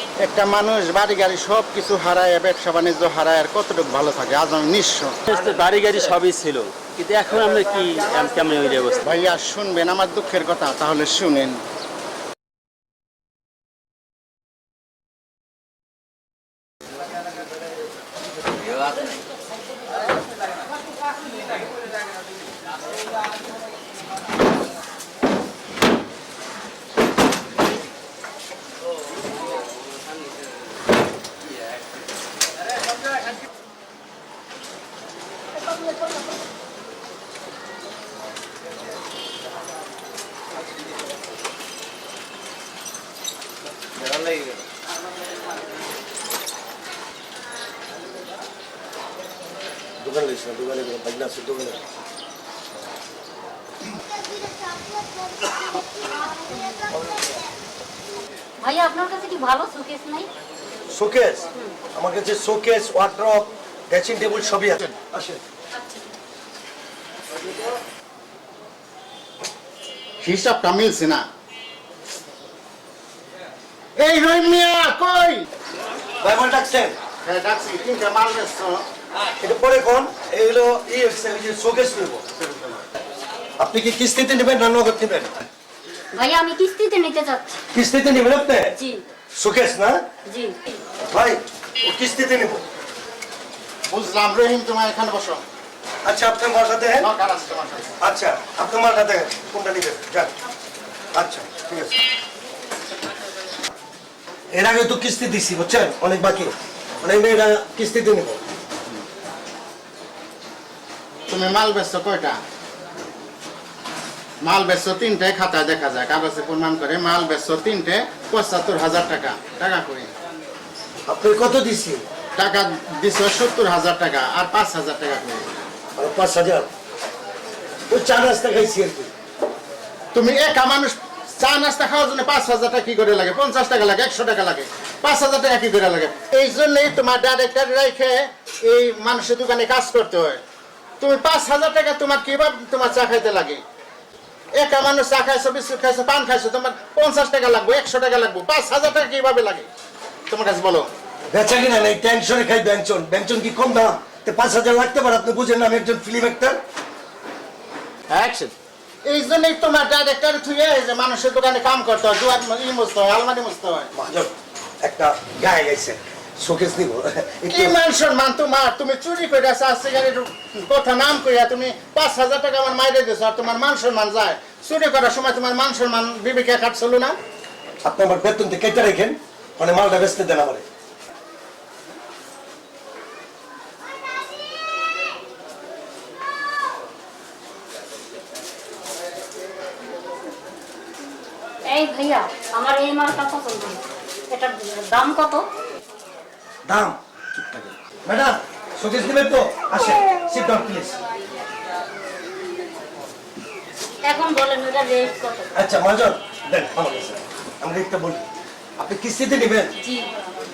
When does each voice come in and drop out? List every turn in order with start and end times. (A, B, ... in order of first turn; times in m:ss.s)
0:00.2-0:05.2 A
0:05.3-0:09.0 B
0:09.0-0:11.6 A
0:50.0-0:51.8 C
0:58.6-1:00.3 D
1:00.9-1:05.4 C
1:10.2-1:11.2 A
1:14.0-1:15.5 A
1:16.2-1:17.0 C
1:17.2-1:18.8 A
1:19.4-1:22.7 C
1:23.6-1:25.4 C
1:26.1-1:27.6 D
1:27.7-1:28.8 C
1:28.8-1:29.0 D
1:29.3-1:30.0 C
1:30.3-1:30.6 D
1:31.1-1:32.6 C
1:33.9-1:35.4 A
1:36.0-1:37.1 C
1:37.0-1:37.9 A
1:38.0-1:40.3 C
1:41.2-1:42.0 C
1:44.5-1:48.4 C
1:51.3-1:52.4 A
1:54.4-2:00.1 A
2:01.1-2:02.0 C
2:02.4-2:05.5 A
2:06.0-2:06.7 C
2:07.9-2:09.1 C
2:10.1-2:20.4 A
2:21.0-2:23.6 A
2:24.6-2:29.7 A
2:30.3-2:30.9 A
2:31.3-2:36.6 C
2:38.1-2:38.5 A
2:39.0-2:43.9 A
2:43.9-2:47.8 C
2:47.5-2:57.2 A
2:57.8-3:00.6 C
3:11.7-3:15.4 D
3:16.7-3:21.0 C
3:24.1-3:25.5 D
3:25.6-3:28.3 C
3:28.8-3:29.7 C
3:29.8-3:30.1 D